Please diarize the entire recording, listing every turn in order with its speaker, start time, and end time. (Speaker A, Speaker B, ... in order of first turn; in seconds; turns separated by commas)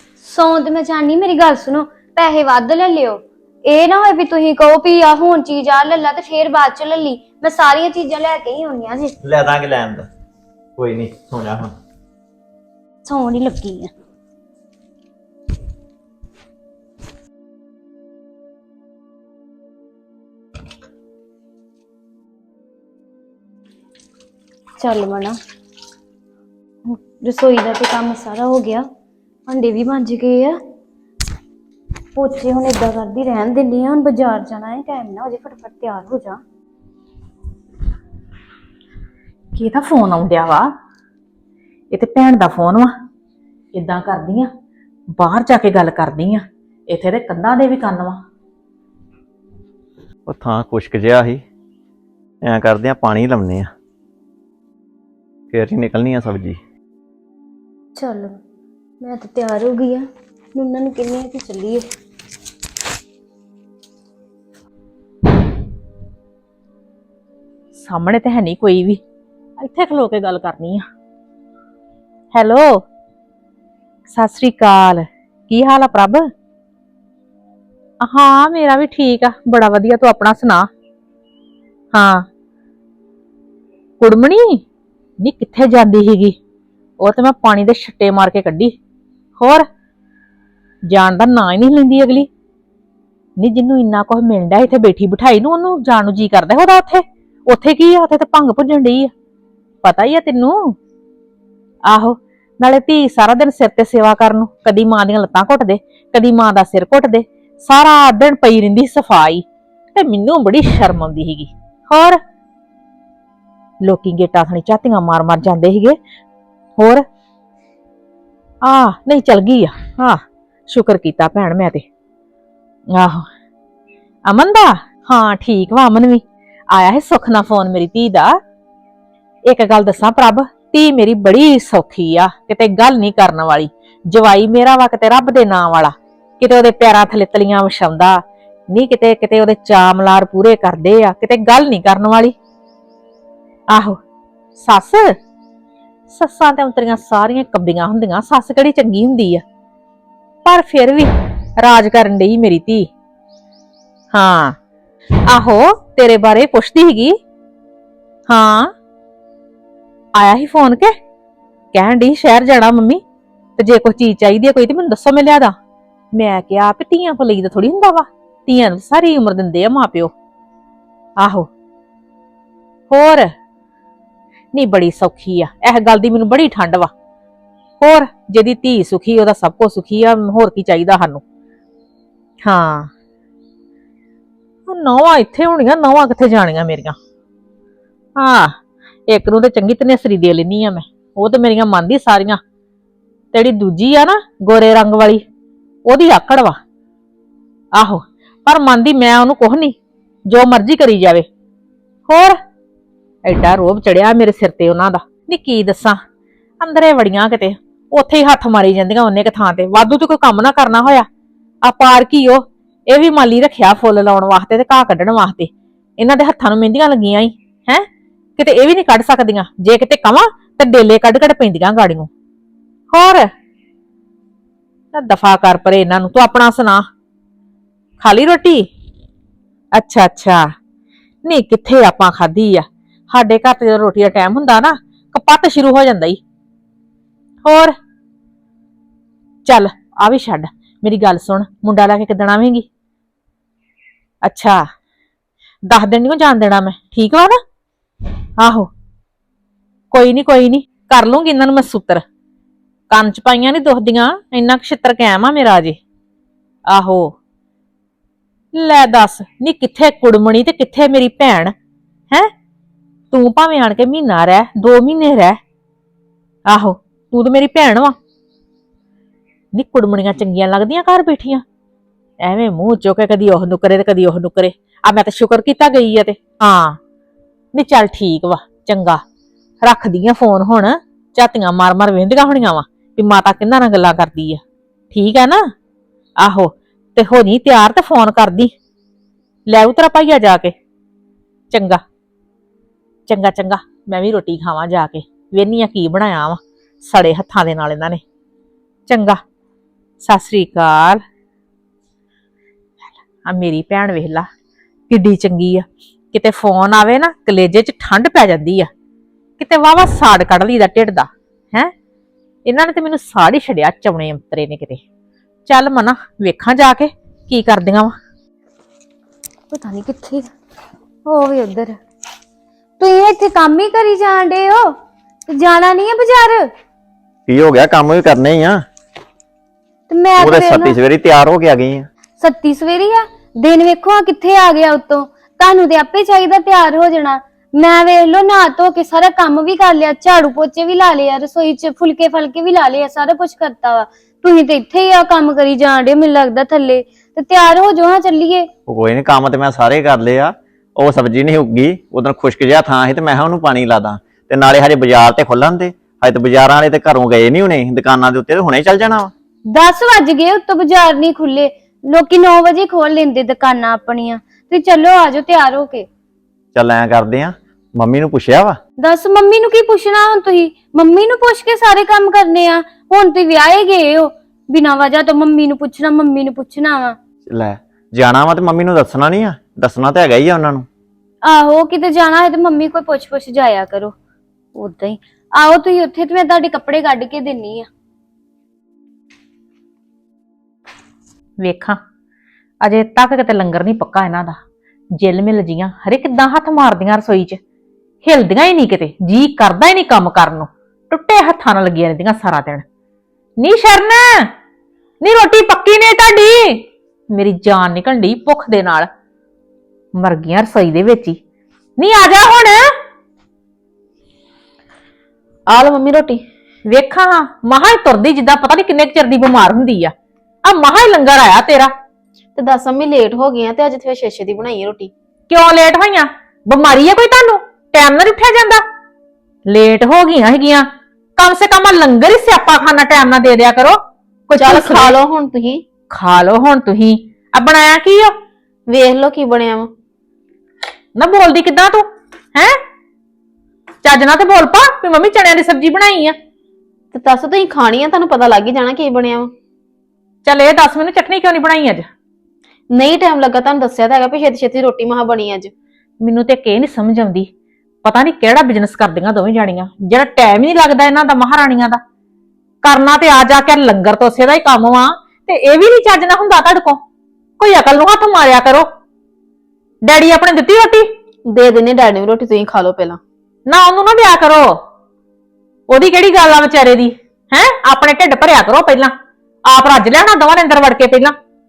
Speaker A: 0.2-9.1, Speaker B: 9.2-10.1, Speaker B: 10.8-11.7, Speaker A: 13.1-13.9, Speaker A: 24.8-25.4, Speaker A: 26.9-28.8, Speaker A: 29.5-30.6, Speaker A: 32.2-36.4, Speaker C: 39.5-40.7, Speaker C: 41.9-42.9, Speaker C: 43.7-44.5, Speaker C: 45.2-48.2, Speaker B: 50.3-51.4, Speaker B: 52.5-53.7, Speaker B: 55.5-56.6, Speaker A: 58.0-58.3, Speaker A: 59.0-60.0, Speaker A: 60.5-61.8, Speaker C: 67.7-69.0, Speaker C: 69.6-70.9, Speaker C: 72.3-72.8, Speaker C: 74.1-76.3, Speaker C: 78.0-80.7, Speaker C: 81.9-82.3, Speaker C: 84.0-84.6, Speaker C: 85.2-86.4, Speaker C: 87.0-88.8, Speaker C: 89.4-89.7, Speaker C: 90.9-92.3, Speaker C: 93.4-99.1, Speaker C: 99.8-100.8, Speaker C: 101.9-109.4, Speaker C: 110.0-112.2, Speaker C: 113.8-116.0, Speaker C: 116.8-117.0, Speaker C: 118.6-121.8, Speaker C: 122.9-123.3, Speaker C: 124.3-128.4, Speaker C: 129.5-138.2, Speaker C: 138.7-142.3, Speaker C: 143.7-144.0, Speaker C: 144.6-145.0, Speaker C: 146.1-149.4, Speaker C: 150.4-152.9, Speaker C: 154.1-154.6, Speaker C: 155.3-157.2, Speaker C: 158.3-158.7, Speaker C: 160.2-160.9, Speaker C: 161.7-163.0, Speaker C: 163.6-165.5, Speaker C: 166.1-170.1, Speaker C: 171.2-171.5, Speaker C: 172.9-173.3, Speaker C: 174.5-176.9, Speaker C: 177.8-181.2, Speaker C: 182.4-182.9, Speaker C: 184.7-187.0, Speaker C: 188.2-188.6, Speaker C: 189.1-192.4, Speaker C: 193.3-195.2, Speaker C: 195.9-196.6, Speaker C: 197.8-199.8, Speaker C: 200.3-201.3, Speaker C: 202.1-202.4, Speaker C: 203.2-206.0, Speaker C: 206.6-211.1, Speaker C: 211.6-217.9, Speaker C: 218.4-222.1, Speaker C: 222.9-223.3, Speaker C: 224.9-226.9, Speaker C: 228.0-228.7, Speaker C: 229.7-230.5, Speaker C: 231.2-236.2, Speaker C: 237.4-237.7, Speaker C: 239.4-242.7, Speaker C: 244.2-244.6, Speaker C: 245.7-247.4, Speaker C: 248.4-248.7, Speaker C: 249.9-252.0, Speaker C: 252.9-255.8, Speaker C: 256.7-257.1, Speaker C: 258.5-261.5, Speaker C: 263.1-265.4, Speaker C: 266.5-268.0, Speaker C: 269.5-271.4, Speaker C: 272.2-276.8, Speaker C: 277.5-279.0, Speaker C: 279.6-285.5, Speaker C: 286.2-288.5, Speaker C: 289.5-290.6, Speaker C: 291.5-291.8, Speaker C: 293.1-298.0, Speaker C: 298.9-299.2, Speaker C: 300.0-301.0, Speaker C: 302.8-304.3, Speaker C: 304.9-308.7, Speaker C: 309.4-311.7, Speaker C: 312.4-314.8, Speaker C: 315.5-318.0, Speaker A: 319.5-320.3, Speaker A: 321.1-321.8, Speaker A: 322.8-324.7, Speaker A: 325.3-326.4, Speaker B: 327.3-328.6, Speaker A: 329.9-330.7, Speaker B: 330.2-331.9, Speaker A: 332.2-348.5, Speaker B: 348.7-359.1, Speaker A: 359.5-365.9, Speaker B: 366.6-368.6, Speaker A: 368.8-377.0, Speaker B: 377.3-380.7, Speaker A: 381.3-383.9, Speaker A: 384.6-387.7, Speaker C: 391.4-391.8, Speaker C: 392.6-394.4, Speaker C: 394.9-397.4, Speaker C: 398.0-402.6, Speaker C: 403.4-404.3, Speaker C: 405.0-408.9, Speaker C: 410.0-411.2, Speaker C: 411.8-412.6, Speaker D: 415.5-416.2, Speaker C: 416.7-419.9, Speaker C: 420.4-421.7, Speaker D: 422.4-424.9, Speaker C: 425.3-428.6, Speaker C: 429.5-434.9, Speaker D: 434.4-435.6, Speaker C: 435.9-438.1, Speaker D: 438.7-439.7, Speaker C: 441.0-442.6, Speaker C: 443.8-446.2, Speaker D: 446.9-449.3, Speaker C: 450.2-451.9, Speaker D: 452.7-455.5, Speaker C: 456.0-457.3, Speaker C: 457.8-461.8, Speaker C: 462.6-466.8, Speaker C: 467.4-468.7, Speaker C: 469.9-470.9, Speaker D: 471.3-473.0, Speaker C: 473.5-474.6, Speaker C: 475.7-478.9, Speaker C: 479.5-481.1